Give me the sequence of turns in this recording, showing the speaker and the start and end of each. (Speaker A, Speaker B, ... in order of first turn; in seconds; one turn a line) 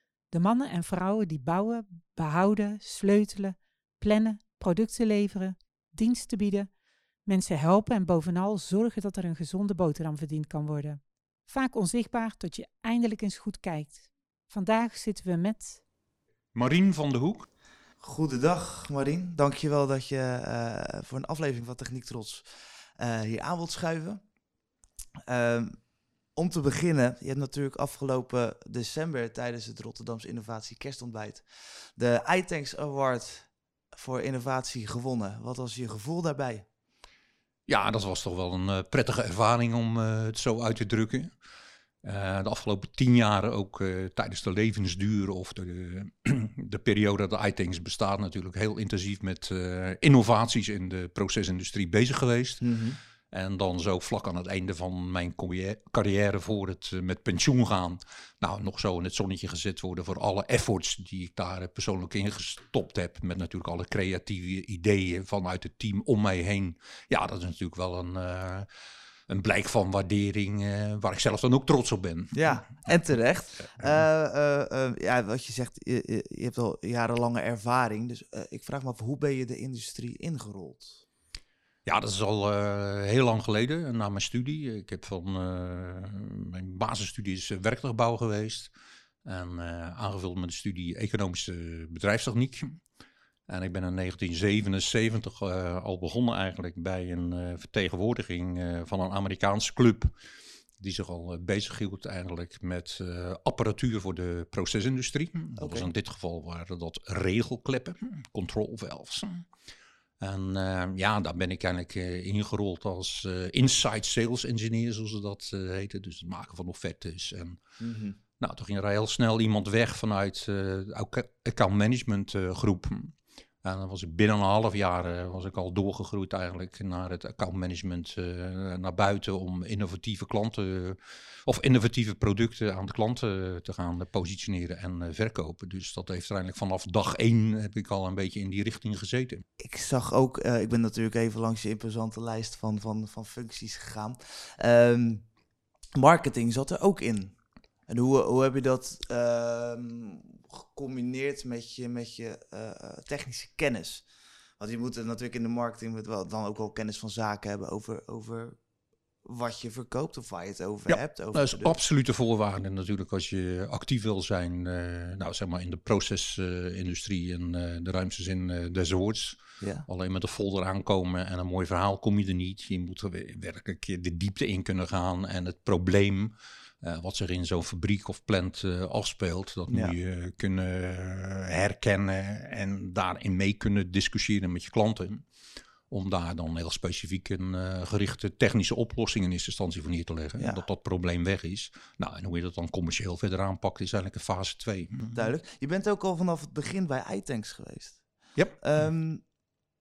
Speaker A: 0.3-6.7
Speaker A: 7.2-15.8
Speaker B: 16.5-17.5
Speaker C: 18.0-24.2
Speaker C: 25.3-36.7
Speaker B: 37.7-41.3
Speaker B: 42.0-52.7
Speaker C: 52.6-53.0
Speaker B: 53.3-68.7
Speaker B: 69.3-72.7
Speaker C: 72.3-81.0
Speaker B: 81.8-88.7
Speaker B: 89.2-92.8
Speaker B: 93.5-100.1
Speaker B: 100.8-109.5
Speaker C: 105.6-105.9
Speaker B: 110.2-117.6
Speaker C: 117.8-118.2
Speaker B: 118.4-139.4
Speaker C: 139.6-145.3
Speaker C: 145.9-158.6
Speaker C: 159.2-161.8
Speaker B: 160.9-185.3
Speaker C: 169.6-169.9
Speaker C: 179.7-179.9
Speaker B: 185.9-195.3
Speaker C: 195.1-199.3
Speaker B: 198.3-198.6